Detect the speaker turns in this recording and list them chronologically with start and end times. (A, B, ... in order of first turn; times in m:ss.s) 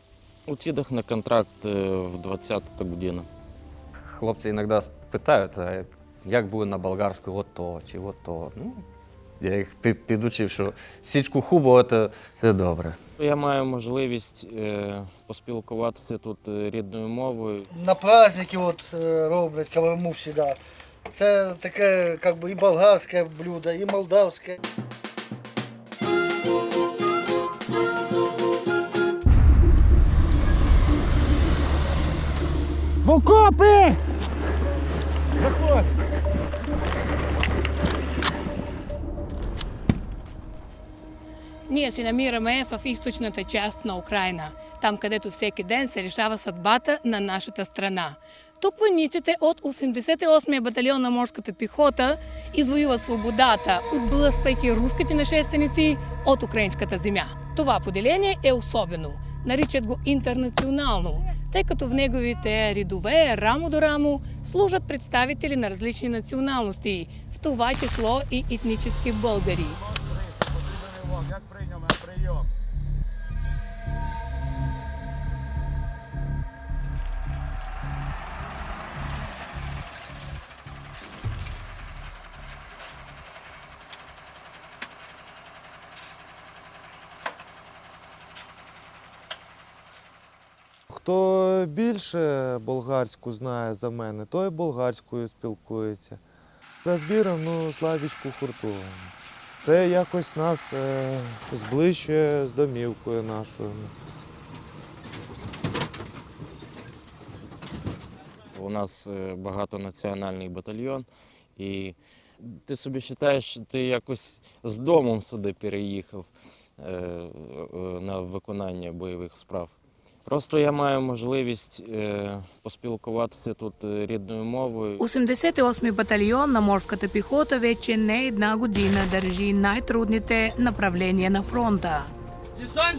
0:00.5-0:03.3 A
0:04.1-0:08.8 B
0:09.4-0:13.0 B
0:13.2-0:17.7 A
0:17.7-0:20.6 C
0:21.1-0:24.6 C
0:41.7-1:09.8 D
1:30.9-1:36.2 E
1:36.8-1:43.9 E
1:48.5-1:56.3 A
1:56.8-1:59.8 A
2:00.2-2:05.0 A
2:05.0-2:12.1 D